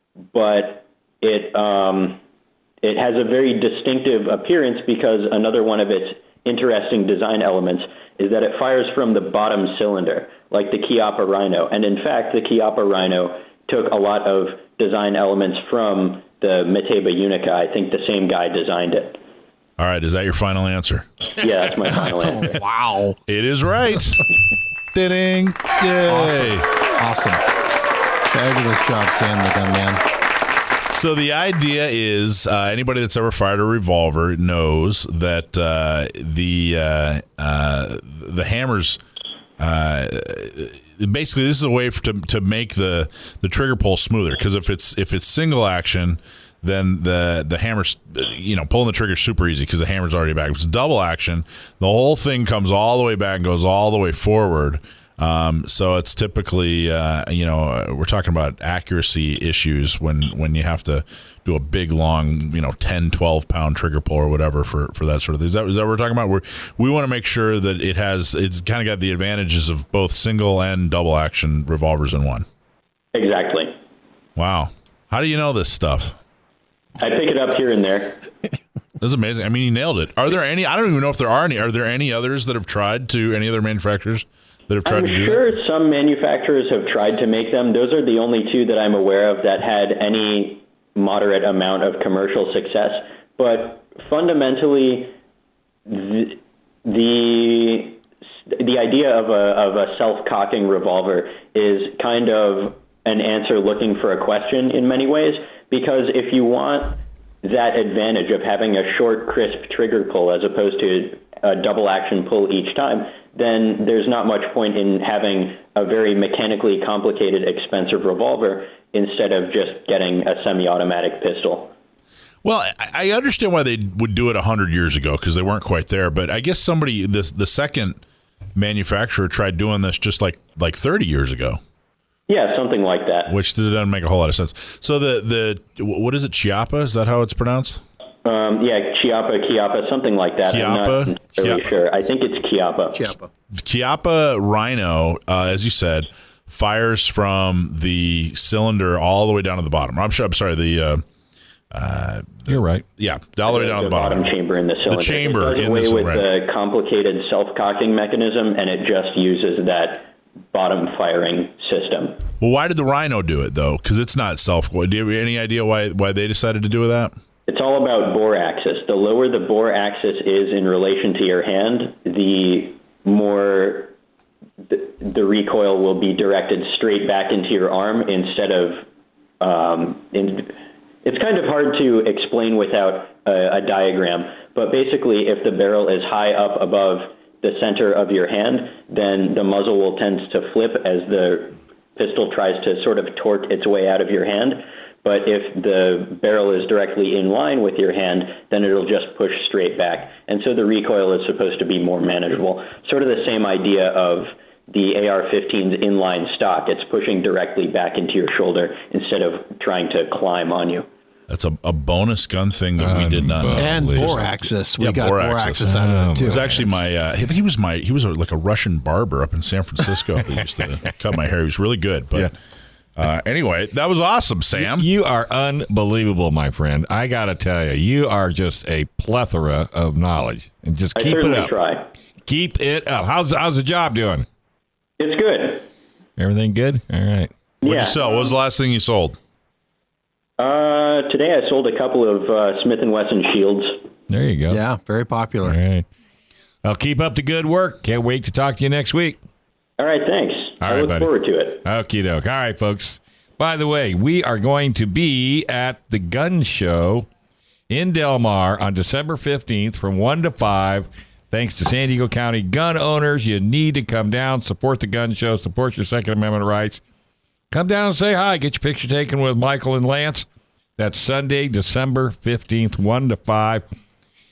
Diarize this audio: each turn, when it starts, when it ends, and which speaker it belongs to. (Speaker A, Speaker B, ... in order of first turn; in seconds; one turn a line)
Speaker A: 0.3-2.2
Speaker A: 2.8-19.2
Speaker B: 19.8-21.3
Speaker A: 21.4-22.6
Speaker C: 22.5-23.1
Speaker B: 23.2-24.3
Speaker B: 24.9-26.7
Speaker C: 26.1-27.4
Speaker C: 28.3-30.0
Speaker B: 30.9-39.0
Speaker B: 39.6-72.4
Speaker A: 73.1-73.7
Speaker B: 74.4-76.1
Speaker A: 77.0-78.2
Speaker B: 79.0-85.4
Speaker A: 84.8-95.1
Speaker A: 95.9-121.7
Speaker B: 122.4-128.0
Speaker B: 128.6-131.6
Speaker A: 132.3-133.3
Speaker B: 133.3-137.8
Speaker A: 138.2-143.2
Speaker B: 140.5-141.7
Speaker C: 143.0-143.3
Speaker B: 143.5-151.0
Speaker B: 151.7-154.3
Speaker D: 152.5-152.8
Speaker A: 153.4-162.2
Speaker B: 154.9-156.3
Speaker B: 162.4-167.1
Speaker A: 167.5-173.9
Speaker A: 174.7-178.8
Speaker A: 179.4-210.8
Speaker B: 211.3-222.3
Speaker D: 212.8-214.3
Speaker C: 213.5-216.7
Speaker D: 215.6-216.5
Speaker B: 223.0-224.9
Speaker D: 224.6-231.5
Speaker A: 230.9-231.9
Speaker D: 232.2-234.2
Speaker A: 235.0-235.7
Speaker D: 236.2-237.3
Speaker A: 237.6-238.3
Speaker B: 237.6-239.2
Speaker A: 240.4-243.8
Speaker D: 244.1-244.6
Speaker C: 244.5-245.6
Speaker D: 245.4-245.8
Speaker D: 246.6-249.2
Speaker A: 249.8-251.6
Speaker D: 250.6-251.1
Speaker D: 251.6-257.1
Speaker D: 257.7-266.8
Speaker D: 267.5-273.6